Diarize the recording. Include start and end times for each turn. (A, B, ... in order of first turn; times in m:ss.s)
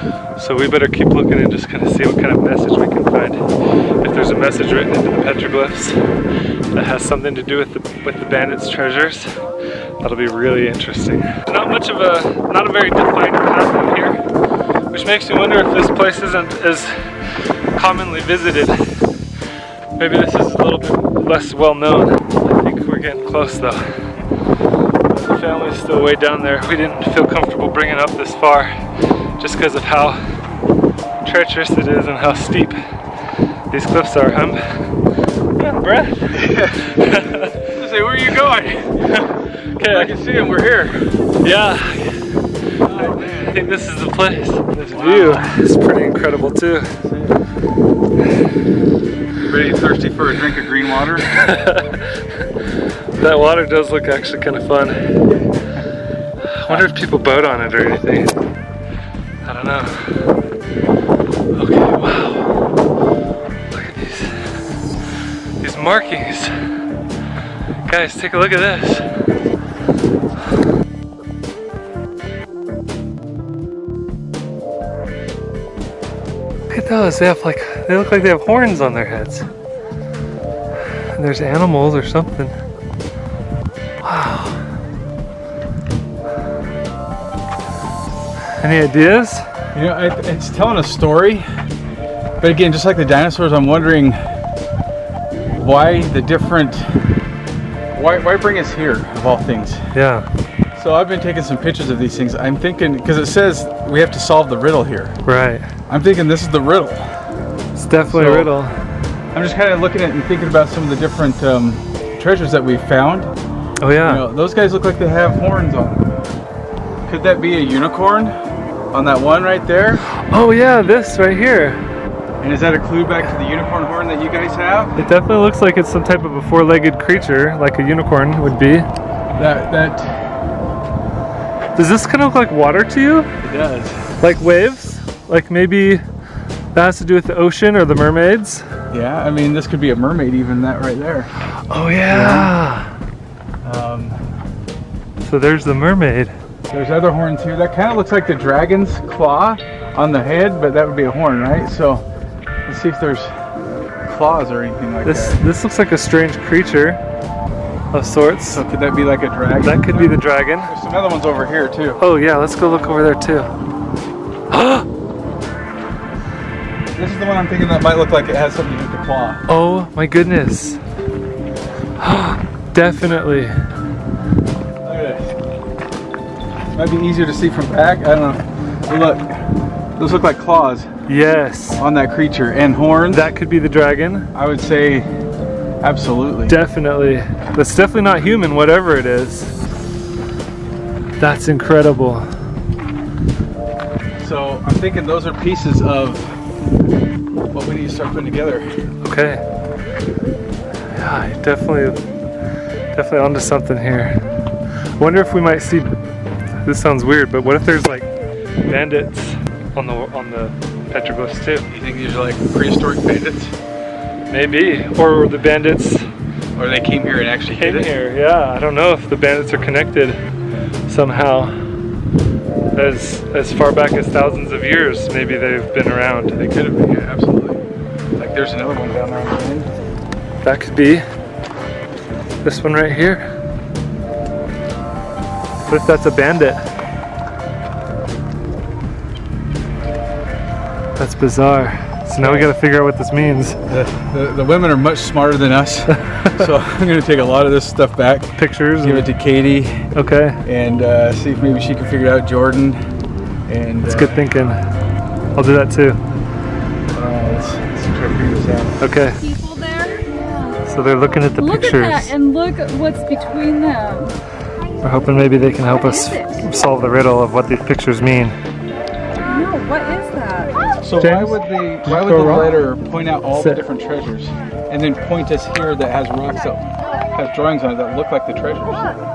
0:00.4-0:03.4 A
0:04.0-0:06.0 A
0:06.7-0:09.3 A
0:10.0-0:14.2 A
0:14.9-0:16.9 A
0:17.8-0:18.8 A
0:20.0-0:23.8 A
0:25.1-0:28.7 A
0:29.4-0:30.2 A
0:31.2-0:32.8 A
0:33.7-0:34.6 A
0:35.6-0:37.6 A
0:36.3-0:36.8 B
0:37.7-0:39.0 B
0:39.0-0:40.1 A
0:39.8-0:41.1 B
0:41.4-0:42.2 A
0:42.9-0:43.7 B
0:42.9-0:46.9 A
0:44.9-0:45.5 B
0:47.0-0:47.4 B
0:49.5-0:51.3 B
0:51.2-0:52.2 A
0:53.2-0:55.0 A
0:56.5-0:58.3 A
0:59.4-1:00.3 A
1:01.6-1:02.5 A
1:03.7-1:04.7 A
1:05.6-1:06.5 A
1:07.9-1:09.1 A
1:16.7-1:19.5 A
1:21.1-1:22.6 A
1:24.0-1:24.6 A
1:28.6-1:29.4 A
1:29.7-1:31.5 B
1:32.4-1:34.2 B
1:35.5-1:36.9 B
1:37.9-1:39.8 B
1:39.9-1:40.3 A
1:40.8-1:45.2 B
1:45.2-1:45.7 A
1:45.9-1:47.1 B
1:47.8-1:48.7 A
1:48.0-1:48.5 B
1:49.3-1:53.3 B
1:53.8-1:54.2 A
1:54.0-1:56.1 B
1:57.1-1:58.4 B
1:58.9-2:00.0 B
2:00.1-2:01.8 A
2:02.4-2:05.0 B
2:05.0-2:08.9 A
2:09.4-2:10.3 B
2:11.8-2:13.3 A
2:13.4-2:14.0 B
2:14.2-2:16.0 A
2:16.7-2:18.6 A
2:18.9-2:21.3 B
2:21.7-2:22.9 A
2:22.1-2:22.5 B
2:23.6-2:24.2 B
2:25.2-2:26.3 A
2:26.7-2:32.0 B
2:32.7-2:33.3 B
2:34.0-2:35.4 B
2:35.0-2:37.0 A
2:37.9-2:38.6 A
2:38.5-2:42.0 B
2:39.6-2:40.7 A
2:42.0-2:43.5 A
2:44.5-2:44.9 A
2:47.0-2:49.4 B
2:49.5-2:50.8 A
2:52.0-2:53.6 A
2:54.8-2:55.4 B
2:56.7-2:59.4 B
3:00.0-3:00.9 B
3:01.1-3:01.8 A
3:01.8-3:03.3 B
3:03.1-3:04.3 A
3:04.3-3:05.1 B
3:05.8-3:06.6 B
3:06.5-3:09.5 A
3:11.2-3:12.3 A
3:14.2-3:16.4 B
3:17.5-3:18.7 B
3:19.0-3:19.4 A
3:20.9-3:22.0 A
3:23.0-3:24.2 A
3:25.0-3:25.9 A
3:26.6-3:28.1 A
3:28.6-3:31.7 A
3:31.7-3:33.5 B
3:34.3-3:36.1 A
3:36.6-3:37.9 B
3:37.5-3:40.2 A
3:40.9-3:41.6 A
3:42.7-3:46.4 A
3:46.4-3:47.6 B
3:48.2-3:49.7 B
3:50.4-3:51.0 A
3:52.4-3:53.2 A
3:55.6-3:56.6 A
4:01.0-4:03.6 A
4:02.2-4:02.5 B
4:03.7-4:09.9 B
4:05.9-4:06.4 A
4:08.4-4:09.1 A
4:09.9-4:10.4 A
4:10.4-4:12.8 B
4:13.5-4:14.2 B
4:13.8-4:14.6 A
4:15.4-4:16.0 A
4:16.9-4:18.8 B
4:18.8-4:19.2 A
4:19.2-4:20.6 C
4:20.7-4:22.1 A
4:21.4-4:24.1 C
4:24.8-4:28.4 A
4:25.8-4:26.7 C
4:29.2-4:30.6 C
4:30.8-4:39.0 B
4:31.0-4:32.6 A
4:33.4-4:33.6 A